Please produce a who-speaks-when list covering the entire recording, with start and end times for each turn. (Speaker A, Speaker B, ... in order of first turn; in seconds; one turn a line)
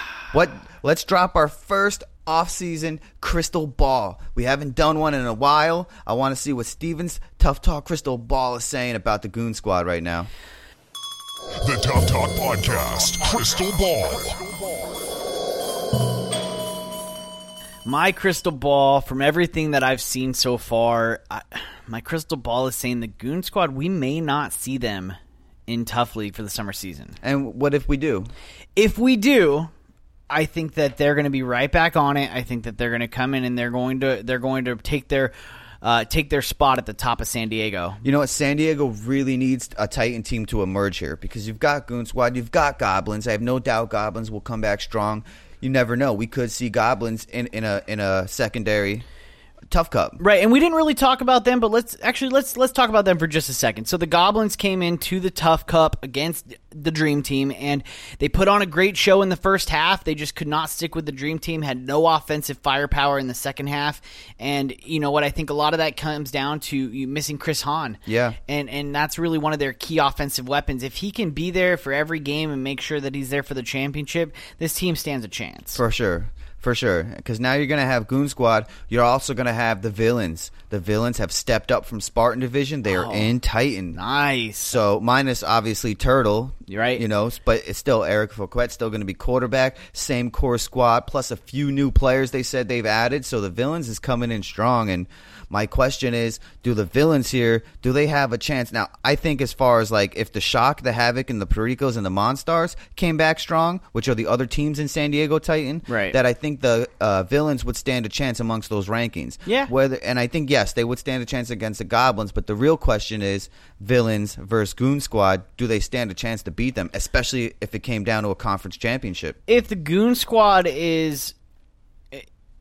Speaker A: 0.3-10.3
Speaker B: 11.6-14.5
Speaker C: 17.9-27.2
Speaker A: 27.2-28.3
Speaker C: 28.8-29.7
Speaker C: 30.3-38.0
Speaker A: 38.0-49.0
Speaker A: 49.7-50.2
Speaker C: 50.2-75.8
Speaker A: 68.1-68.4
Speaker A: 75.8-84.0
Speaker C: 82.9-83.3
Speaker C: 83.9-84.8
Speaker A: 84.7-119.4
Speaker C: 86.7-87.0
Speaker C: 105.9-106.2
Speaker C: 109.5-109.7
Speaker C: 119.5-121.3